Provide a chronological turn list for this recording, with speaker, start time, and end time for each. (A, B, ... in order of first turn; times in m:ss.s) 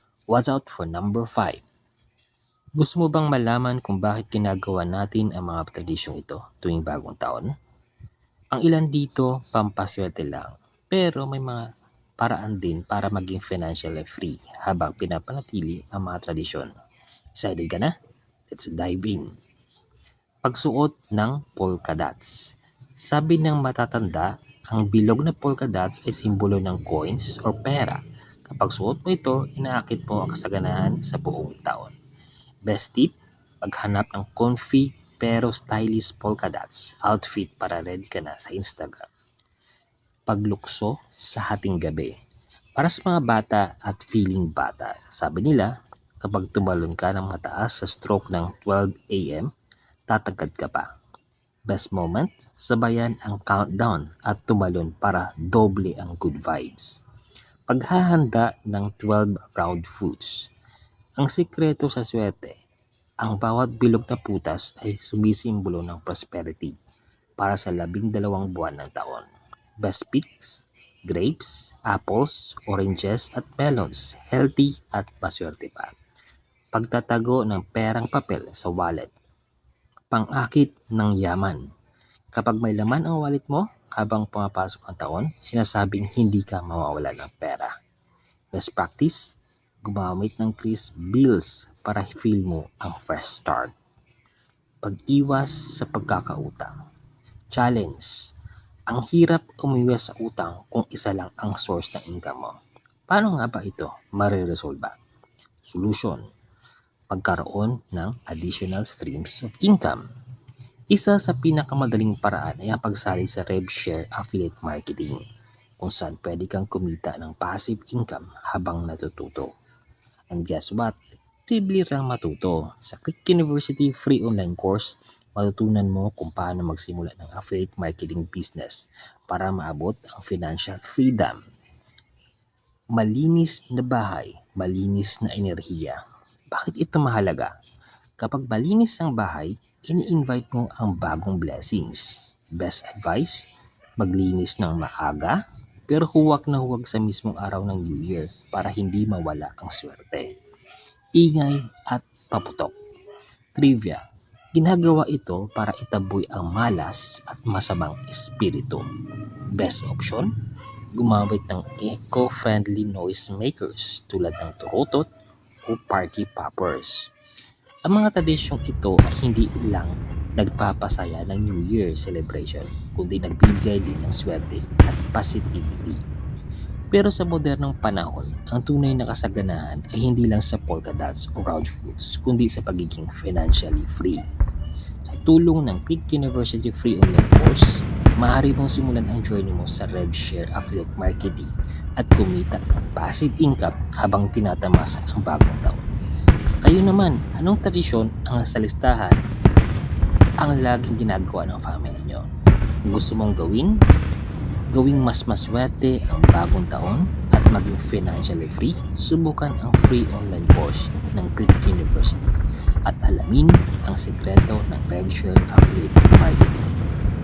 0:00.3-0:01.6 A
0:02.8-0:07.5 A
0:08.5-0:11.7 A
0:12.2-0:16.7 A
0:17.4-0:17.9 A
0:18.5-0:19.3 A
0:20.4-0:32.0 A
0:32.6-0:39.1 A
0:40.3-0:42.2 A
0:42.8-0:49.5 A
0:50.1-0:50.9 A
0:51.7-0:57.0 A
0:57.7-1:00.5 A
1:01.2-1:02.6 A
1:03.2-1:06.8 A
1:07.4-1:09.3 A
1:09.8-1:15.9 A
1:16.7-1:19.1 A
1:20.1-1:21.6 A
1:22.3-1:27.7 A
1:28.5-1:33.7 A
1:34.8-1:36.7 A
1:37.5-1:38.3 A
1:38.9-1:42.5 A
1:43.1-1:44.9 A
1:45.6-1:46.2 A
1:47.1-1:50.0 A
1:50.9-1:55.2 A
1:55.8-1:59.5 A
2:00.3-2:11.4 A
2:12.9-2:16.0 A
2:16.5-2:17.5 A
2:18.2-2:23.4 A
2:24.0-2:25.4 A
2:25.9-2:30.3 A
2:31.2-2:32.7 A
2:33.5-2:34.0 A
2:34.5-2:38.8 A
2:39.5-2:40.3 A
2:40.9-2:45.1 A
2:45.6-2:47.1 A
2:47.8-2:56.0 A
2:56.9-3:04.2 A
3:05.0-3:15.8 A
3:16.6-3:19.2 A
3:20.4-3:22.2 A
3:22.9-3:23.7 A
3:24.7-3:36.7 A